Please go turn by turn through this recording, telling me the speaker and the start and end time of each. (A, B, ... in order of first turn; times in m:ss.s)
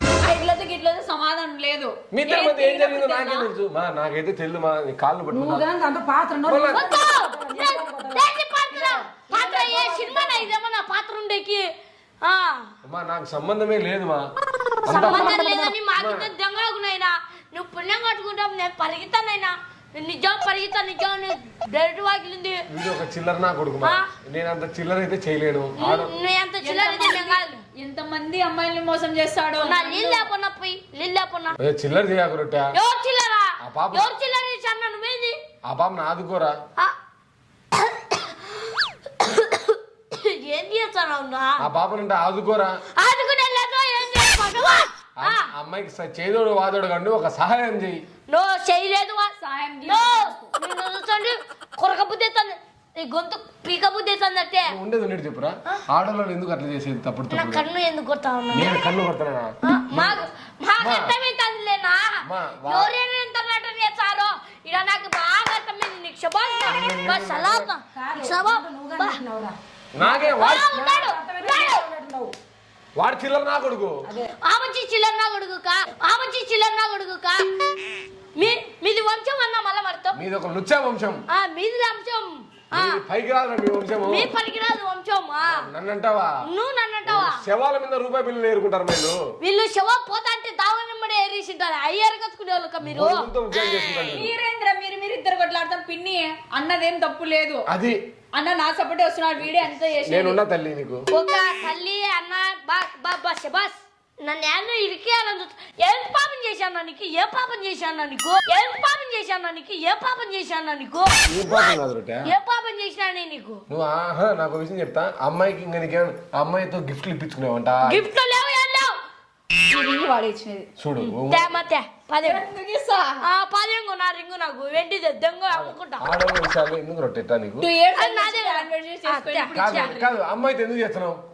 0:00.2-0:03.5 A
0:02.1-0:05.6 B
0:05.3-0:10.5 C
0:06.4-0:06.9 B
0:06.7-0:11.6 D
0:12.2-0:12.7 D
0:12.8-0:14.2 B
0:14.8-0:16.3 B
0:14.9-0:22.6 D
0:22.7-0:26.1 B
0:25.8-0:27.6 D
0:26.6-0:30.3 A
0:29.6-0:31.6 D
0:31.6-0:32.8 B
0:32.7-0:35.4 D
0:33.6-0:34.1 B
0:35.6-0:36.5 B
0:37.7-0:41.6 D
0:41.6-0:42.8 B
0:43.0-0:45.5 D
0:45.2-0:48.0 B
0:48.3-0:54.7 D
0:49.4-0:50.5 A
0:54.6-0:57.6 B
0:57.3-0:58.7 D
0:58.5-1:00.2 B
0:59.6-1:02.1 D
1:00.8-1:01.1 B
1:02.2-1:02.9 B
1:02.6-1:09.2 D
1:06.6-1:07.7 B
1:07.9-1:12.3 C
1:09.9-1:10.7 B
1:10.4-1:11.8 D
1:13.0-1:14.0 B
1:14.0-1:14.3 C
1:14.4-1:17.4 D
1:18.4-1:20.2 D
1:20.1-1:21.2 B
1:21.3-1:23.0 D
1:22.7-1:24.3 B
1:24.0-1:25.5 D
1:25.4-1:26.4 B
1:26.4-1:27.3 D
1:27.0-1:29.2 B
1:29.4-1:33.3 D
1:32.8-1:34.3 B
1:34.1-1:37.6 A
1:37.7-1:38.0 B
1:38.4-1:40.4 A
1:39.4-1:41.0 B
1:41.1-1:51.6 D
1:51.3-1:52.3 B
1:52.2-1:53.6 D
1:53.7-1:58.0 B
1:57.8-1:58.9 D
1:59.7-2:00.7 A
2:00.8-2:01.5 B
2:01.0-2:02.4 D
2:02.2-2:03.2 A
2:03.2-2:06.0 D
2:05.5-2:07.7 B
2:07.6-2:10.2 A
2:07.9-2:09.9 D
2:09.5-2:11.2 B